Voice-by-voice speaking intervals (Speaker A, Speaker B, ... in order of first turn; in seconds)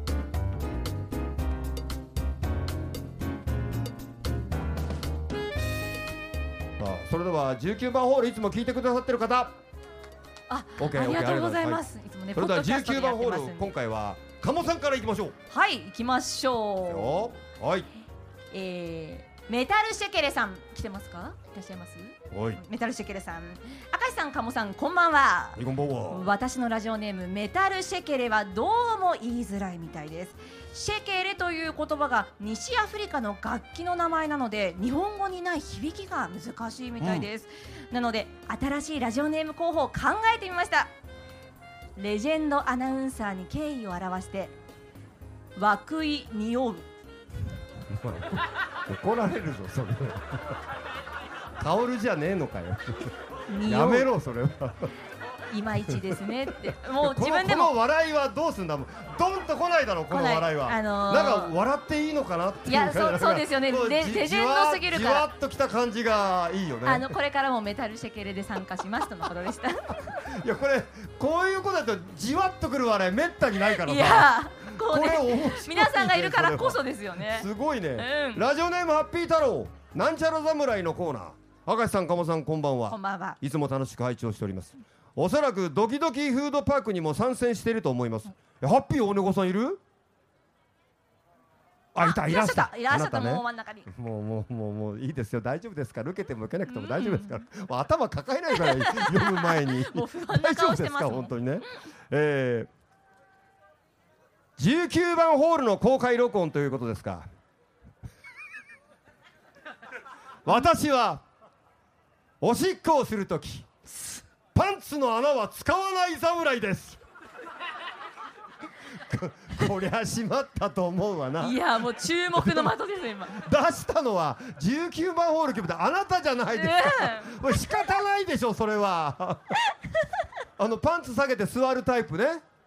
Speaker A: 6.8-9.5, 10.8-11.8, 12.3-15.3, 16.9-17.9, 22.3-22.6, 25.6-26.3, 37.0-37.3, 47.9-48.3, 48.9-50.4, 51.6-54.9, 55.9-67.1, 70.1-89.8, 91.9-102.7, 104.6-107.2, 110.4-111.2, 112.4-113.7, 114.5-117.0, 118.9-121.6, 122.3-122.8, 123.3-129.4, 130.6-132.4
Speaker B: 10.5-13.8, 15.5-17.4, 18.5-40.9, 42.0-44.5, 45.5-46.9, 53.5-54.1, 55.5-57.7, 60.1-61.6, 62.6-65.3, 66.8-70.2, 73.6-78.5, 82.9-83.4, 92.0-93.9, 96.7-97.4, 98.5-101.7, 121.4-123.4, 126.5-127.5